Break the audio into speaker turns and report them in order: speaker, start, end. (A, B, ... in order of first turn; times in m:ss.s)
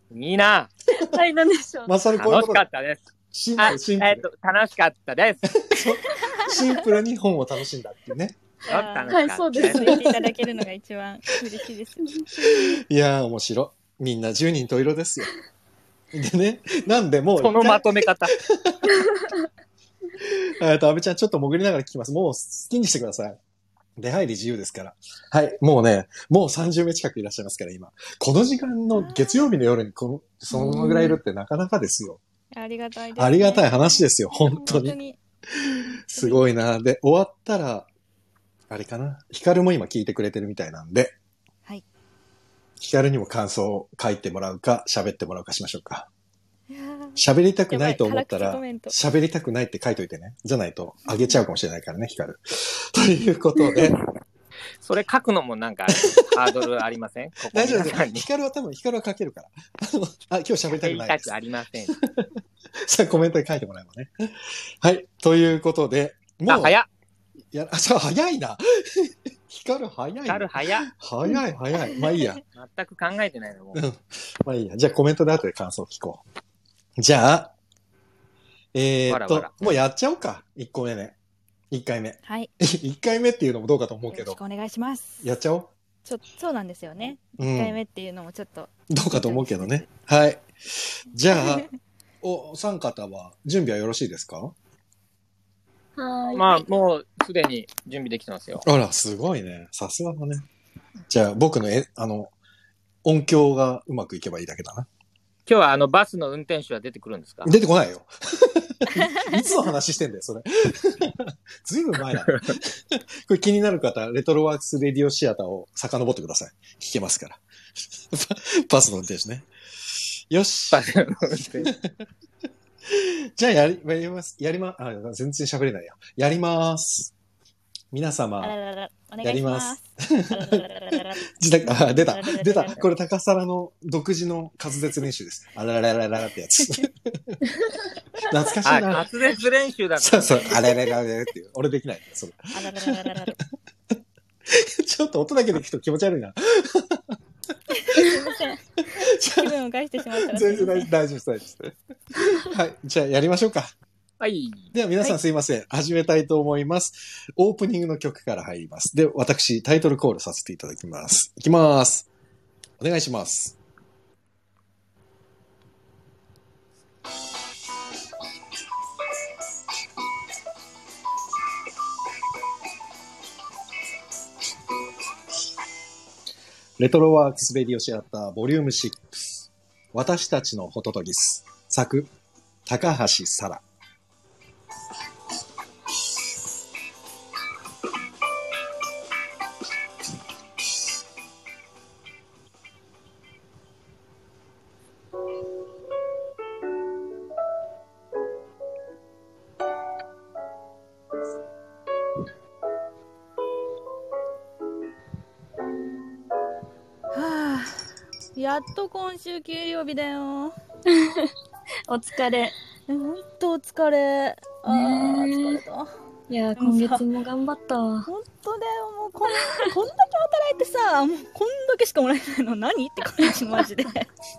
0:00.1-0:00.7 A
0:01.0-0:01.9 B
0:01.9-0:02.7 C
0:02.1-0:03.1 A
0:03.3-0:04.3 C
0:03.6-0:05.4 A
0:05.5-0:08.4 C
0:06.2-0:06.6 D
0:08.7-0:09.9 A
0:08.7-0:12.8 D
0:09.1-0:10.1 B
0:10.0-0:10.3 C
0:12.4-0:15.3 C
0:16.1-0:19.1 C
0:17.4-0:18.3 A
0:20.2-0:23.4 C
0:24.0-0:32.2 C
0:29.0-0:29.5 D
0:30.6-0:30.9 B
0:30.7-0:31.0 D
0:32.5-0:35.2 D
0:33.2-0:35.0 C
0:35.6-0:37.9 C
0:36.1-0:36.4 D
0:38.7-0:41.2 C
0:42.8-0:46.1 C
0:46.7-0:49.0 D
0:47.2-0:54.0 C
0:54.8-0:58.2 A
0:56.0-0:56.5 C
0:57.5-1:01.3 C
1:00.7-1:02.0 A
1:01.9-1:06.8 C
1:06.5-1:06.9 A
1:07.5-1:12.4 C
1:10.3-1:10.9 A
1:12.6-1:13.8 A
1:13.8-1:16.2 C
1:17.0-1:17.5 C
1:18.7-1:21.2 C
1:19.1-1:19.7 A
1:21.7-1:24.4 C
1:22.2-1:22.5 D
1:24.1-1:25.2 D
1:25.2-1:25.7 C
1:26.0-1:29.8 D
1:27.4-1:27.8 C
1:28.9-1:31.7 C
1:31.4-1:31.7 D
1:32.2-1:34.6 C
1:36.0-1:36.7 B
1:36.4-1:38.6 A
1:38.6-1:40.5 C
1:41.1-1:42.3 C
1:43.0-1:44.9 C
1:45.5-1:47.5 A
1:47.4-1:57.4 C
1:52.1-1:52.6 A
1:58.1-1:59.5 C
2:00.3-2:00.9 C
2:00.7-2:01.7 A
2:01.6-2:01.9 C
2:02.9-2:07.1 C
2:07.9-2:08.6 C
2:08.4-2:12.8 D
2:09.2-2:17.4 C
2:18.2-2:19.1 C
2:18.6-2:20.7 A
2:20.0-2:23.4 C
2:22.5-2:23.4 D
2:24.5-2:27.2 C
2:27.8-2:30.9 D
2:28.9-2:29.6 C
2:30.1-2:33.7 C
2:34.2-2:34.7 A
2:34.7-2:42.1 C
2:42.8-2:43.6 C
2:56.8-3:02.1 C
3:02.7-3:03.6 C
3:27.1-3:27.8 D
3:28.4-3:30.6 D
3:30.9-3:31.3 B
3:31.9-3:32.6 B
3:32.9-3:35.9 D
3:34.7-3:35.6 B
3:36.3-3:38.1 B
3:36.6-3:37.0 D
3:38.1-3:44.1 D